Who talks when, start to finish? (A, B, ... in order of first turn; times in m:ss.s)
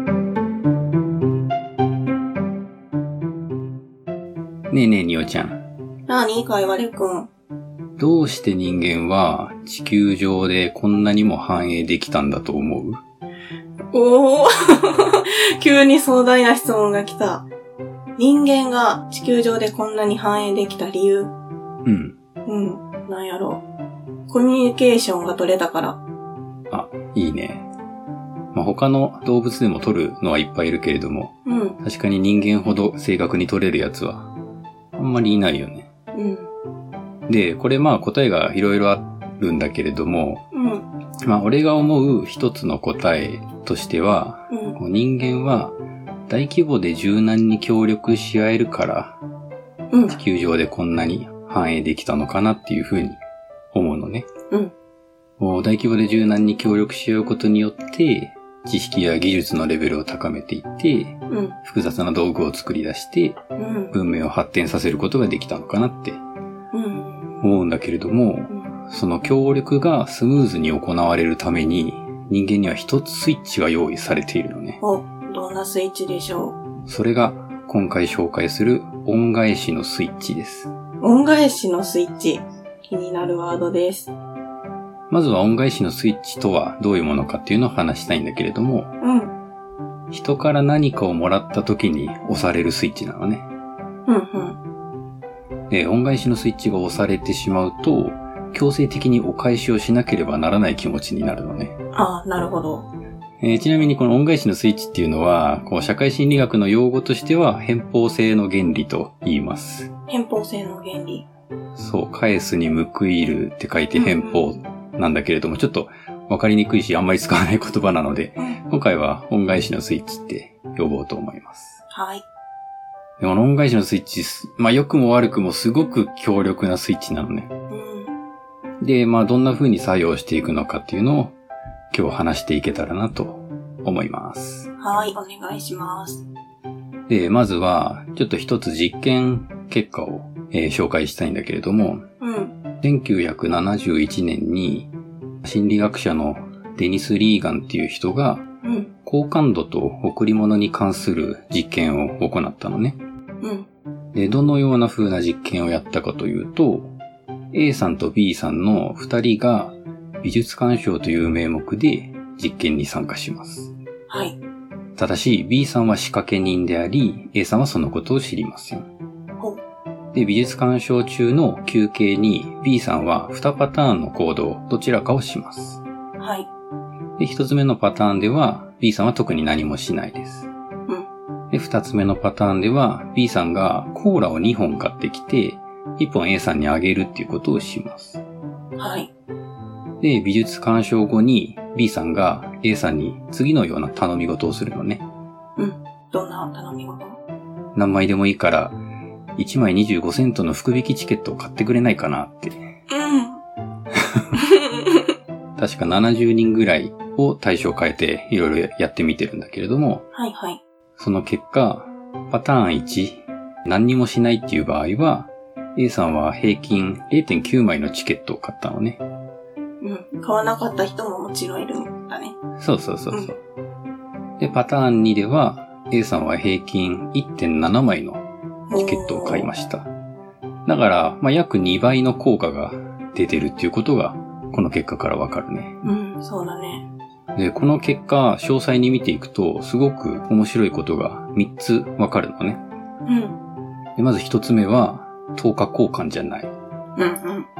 0:04.7-0:05.6 A
0:06.1-0:07.3 B
0:08.0-0:13.0 A
0:13.9-0:17.4 B
0:18.2-0:21.3 B
0:21.8-0:22.1 A
0:22.4-0:23.6 B
0:24.3-0:26.0 B
0:26.7-0:27.7 A
0:28.5-0:34.3 A
0:31.4-0:31.8 B
0:34.9-0:35.9 A
0:36.1-0:36.5 B
0:37.3-0:40.4 A
0:40.5-0:40.9 B
0:41.2-0:45.7 A
0:44.5-0:44.8 B
0:46.3-0:49.2 A
0:49.9-0:50.2 B
0:50.1-0:53.2 A
0:53.7-0:54.3 A
0:55.4-1:03.4 A
1:01.3-1:01.6 B
1:03.6-1:03.9 B
1:03.9-1:06.2 A
1:06.7-1:07.4 B
1:07.4-1:14.8 A
1:14.8-1:16.6 B
1:16.9-1:20.7 A
1:21.0-1:24.1 B
1:25.1-1:28.9 A
1:29.0-1:29.3 B
1:30.1-1:33.4 A
1:34.0-1:34.6 B
1:35.7-1:41.8 A
1:41.9-1:42.9 B
1:43.4-1:49.9 A
1:50.1-1:51.2 B
1:51.8-2:01.8 A
1:53.9-1:54.5 B
2:01.9-2:02.2 B
2:03.2-2:07.5 A
2:07.7-2:08.1 B
2:08.8-2:11.3 A
2:11.9-2:14.7 A
2:14.8-2:16.2 B
2:17.1-2:22.0 A
2:22.2-2:22.5 B
2:22.8-2:24.9 A
2:25.4-2:28.4 A
2:28.6-2:28.9 B
2:29.0-2:33.0 A
2:33.4-2:33.7 B
2:34.1-2:36.9 A
2:37.5-2:43.7 A
2:44.1-2:44.4 B
2:45.0-2:48.9 A
2:50.1-2:55.8 A
2:56.2-2:56.5 B
2:57.2-3:00.5 A
3:01.5-3:08.2 A
3:08.8-3:09.1 B
3:10.0-3:15.0 A
3:15.6-3:17.2 B
3:17.7-3:18.8 A
3:19.4-3:22.6 A
3:22.9-3:23.4 B
3:23.9-3:24.3 A
3:24.3-3:25.1 B
3:25.6-3:30.0 A
3:30.1-3:30.6 B
3:31.0-3:39.0 A
3:39.8-3:42.4 B
3:42.6-3:43.4 A
3:44.4-3:48.2 A
3:48.7-3:49.5 B
3:48.8-3:49.9 A
3:50.6-3:55.8 A
3:55.8-3:56.8 B
3:57.3-4:02.6 A
4:03.0-4:03.4 B
4:04.0-4:06.5 A
4:07.0-4:07.5 B